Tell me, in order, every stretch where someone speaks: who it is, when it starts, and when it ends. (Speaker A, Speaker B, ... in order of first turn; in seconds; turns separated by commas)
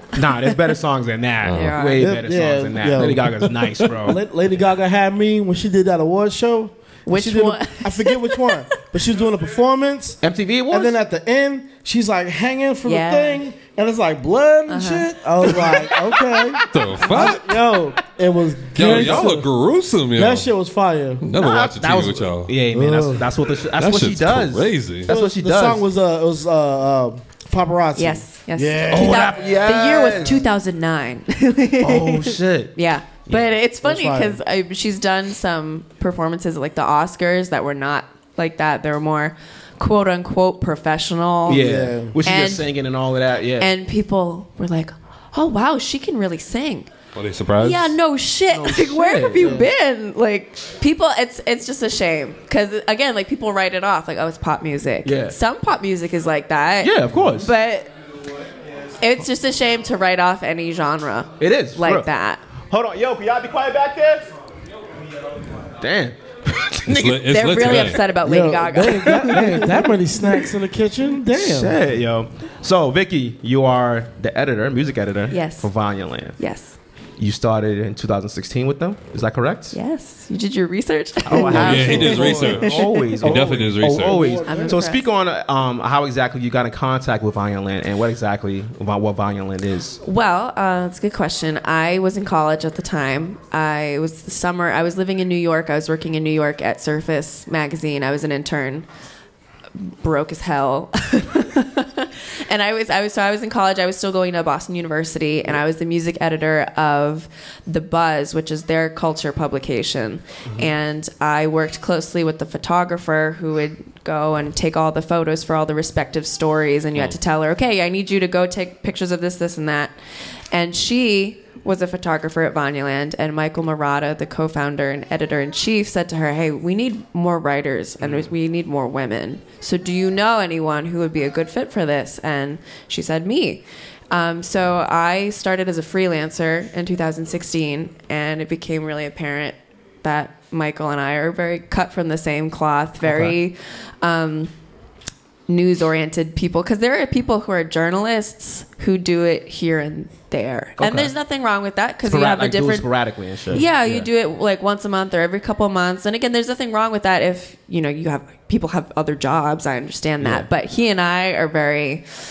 Speaker A: 0.1-4.2, Speaker B: 1.4-1.8, Speaker C: 1.5-2.1, Speaker D: 2.0-3.5, Speaker D: 4.0-19.5, Speaker C: 7.1-8.6, Speaker A: 10.2-11.0, Speaker C: 12.8-13.4, Speaker C: 14.7-15.1, Speaker A: 15.5-17.2, Speaker B: 16.7-17.5, Speaker B: 18.8-20.5, Speaker A: 18.8-19.3, Speaker D: 20.1-21.2, Speaker B: 21.2-22.5, Speaker A: 21.4-25.8, Speaker D: 22.7-23.3, Speaker B: 23.8-25.1, Speaker D: 25.1-29.5, Speaker C: 27.9-41.6, Speaker A: 28.9-30.4, Speaker A: 31.8-32.7, Speaker D: 33.8-34.4, Speaker A: 41.5-43.7, Speaker D: 41.5-42.1, Speaker C: 42.2-42.7, Speaker C: 43.6-46.9, Speaker B: 47.1-47.9, Speaker C: 47.6-57.9, Speaker A: 48.5-49.6, Speaker D: 49.4-49.6, Speaker A: 55.0-55.4, Speaker A: 56.8-57.5, Speaker C: 59.0-62.4, Speaker A: 61.4-62.1, Speaker A: 62.7-64.3, Speaker A: 65.8-66.8, Speaker C: 66.8-69.5, Speaker B: 66.9-68.0, Speaker D: 68.2-71.8, Speaker A: 69.1-69.7, Speaker A: 71.3-76.3, Speaker C: 75.3-75.7, Speaker C: 76.4-76.7, Speaker A: 77.2-79.7, Speaker C: 79.7-82.1, Speaker A: 81.2-90.0, Speaker D: 81.3-84.8, Speaker B: 81.6-84.2, Speaker C: 84.5-85.0, Speaker C: 90.0-98.8, Speaker C: 100.0-119.9, Speaker C: 120.5-144.5, Speaker A: 128.0-128.3, Speaker A: 143.1-143.3, Speaker C: 145.5-152.9, Speaker A: 150.8-151.1, Speaker A: 152.1-154.1, Speaker C: 153.5-162.0, Speaker A: 160.2-160.5